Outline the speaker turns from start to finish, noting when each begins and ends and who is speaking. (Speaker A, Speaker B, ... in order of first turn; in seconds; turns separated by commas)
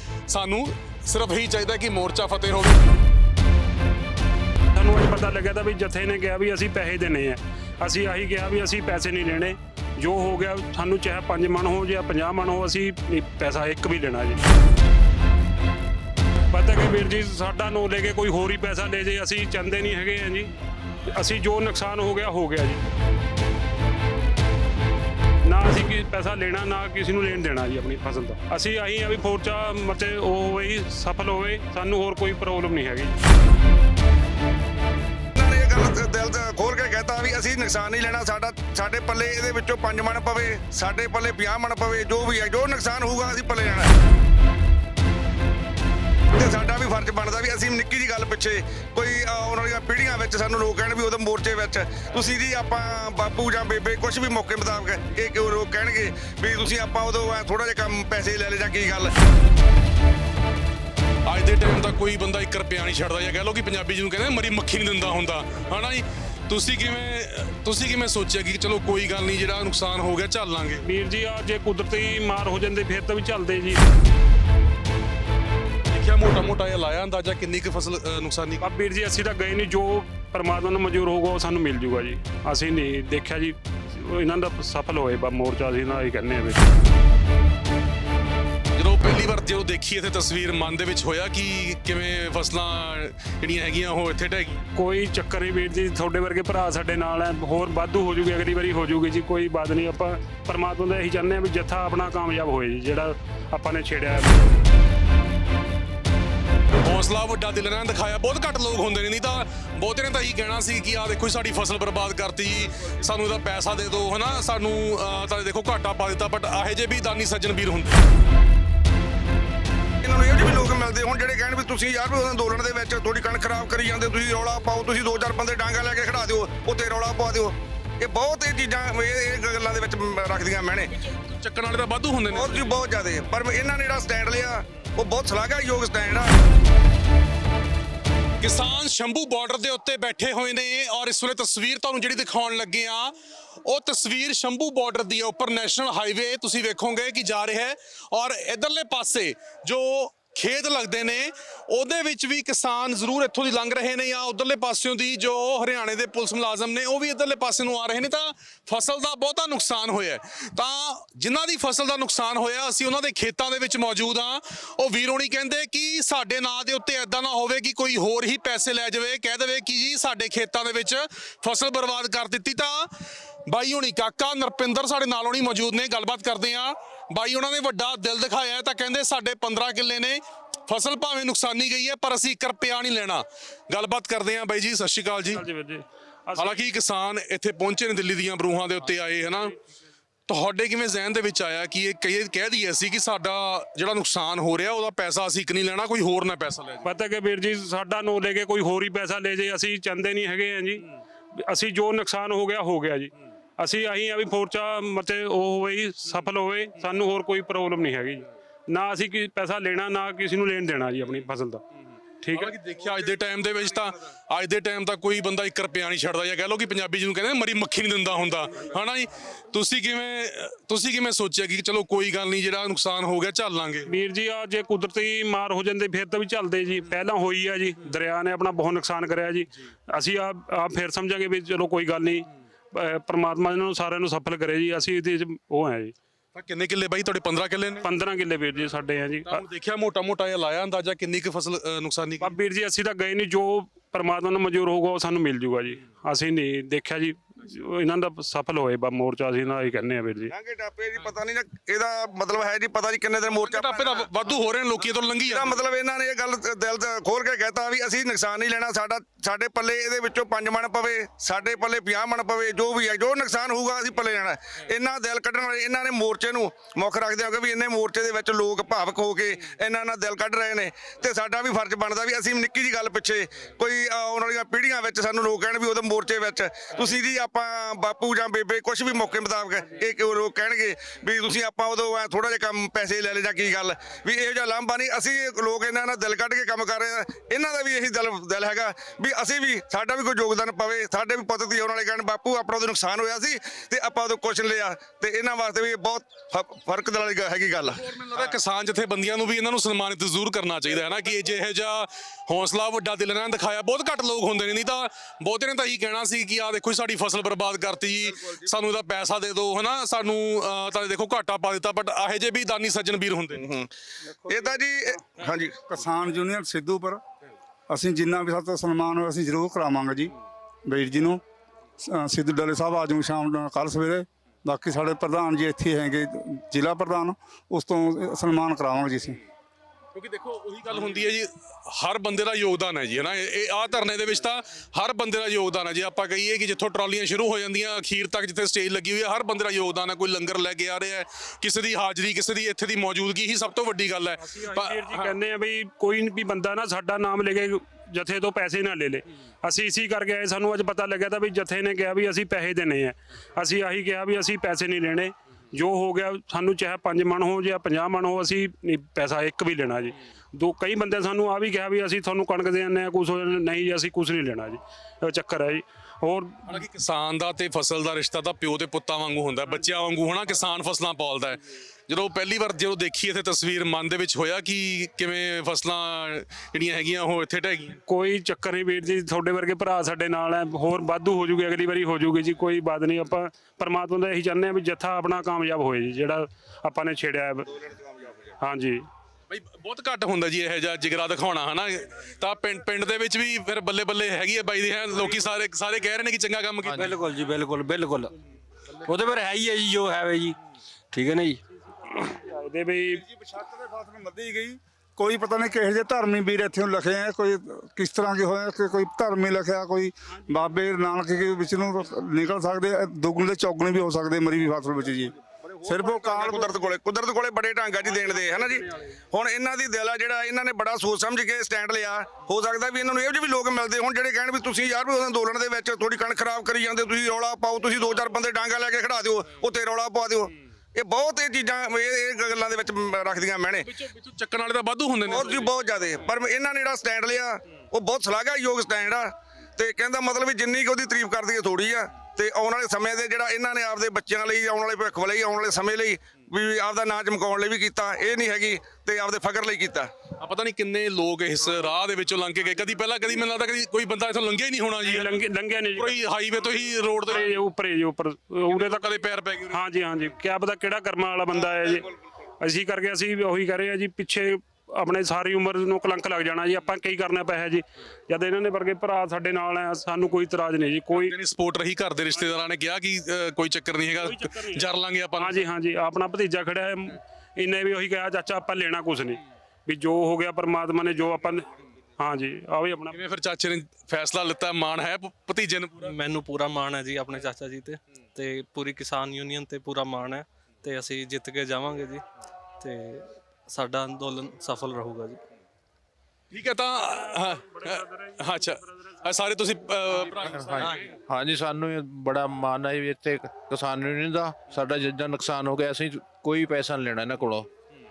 Speaker A: 0.3-2.8, Speaker B: 4.8-14.4, Speaker B: 16.5-20.5, Speaker B: 21.0-22.8, Speaker B: 25.4-33.2, Speaker C: 35.4-43.9, Speaker C: 46.3-59.1, Speaker A: 61.3-70.8, Speaker B: 70.8-73.8, Speaker A: 75.9-78.6, Speaker B: 78.6-86.6, Speaker A: 88.8-94.6, Speaker B: 94.8-104.5, Speaker A: 106.8-118.0, Speaker C: 120.0-130.9, Speaker A: 131.0-132.8, Speaker C: 132.3-136.4, Speaker A: 138.4-143.1, Speaker A: 143.7-172.9, Speaker A: 173.5-185.4, Speaker B: 185.3-186.6, Speaker A: 186.4-189.6, Speaker A: 190.3-196.9, Speaker B: 196.8-211.6, Speaker B: 212.2-212.6, Speaker A: 212.3-223.9, Speaker B: 223.9-235.9, Speaker A: 236.3-237.9, Speaker B: 237.8-239.4, Speaker A: 239.3-242.3, Speaker B: 242.2-250.3, Speaker C: 250.3-254.1, Speaker A: 253.4-255.6, Speaker C: 255.3-297.8, Speaker A: 297.8-313.5, Speaker C: 313.4-313.7, Speaker D: 314.0-314.6, Speaker C: 314.3-315.6, Speaker D: 315.1-317.0, Speaker D: 317.7-320.1, Speaker D: 320.7-321.2, Speaker D: 321.9-329.2, Speaker A: 329.9-345.1, Speaker B: 344.2-366.4, Speaker A: 366.5-377.8, Speaker B: 377.9-387.5, Speaker C: 387.5-388.4, Speaker B: 388.4-388.9, Speaker A: 389.3-397.0, Speaker E: 396.6-397.1, Speaker F: 396.8-398.1, Speaker G: 398.9-400.4, Speaker F: 399.1-400.3, Speaker G: 400.9-401.4, Speaker B: 401.9-403.0, Speaker D: 403.0-416.5, Speaker C: 415.7-433.7, Speaker A: 433.6-435.5, Speaker C: 435.1-449.9, Speaker A: 450.2-455.2, Speaker B: 454.8-456.0, Speaker A: 455.8-457.4, Speaker B: 457.1-459.0, Speaker A: 458.5-459.6, Speaker B: 459.5-461.9, Speaker B: 462.4-471.2, Speaker A: 470.9-475.4, Speaker B: 474.0-481.5, Speaker B: 482.0-483.0, Speaker A: 482.9-485.9, Speaker F: 485.9-492.0, Speaker F: 492.6-495.2, Speaker A: 496.3-500.9, Speaker B: 496.8-498.6, Speaker E: 500.1-507.5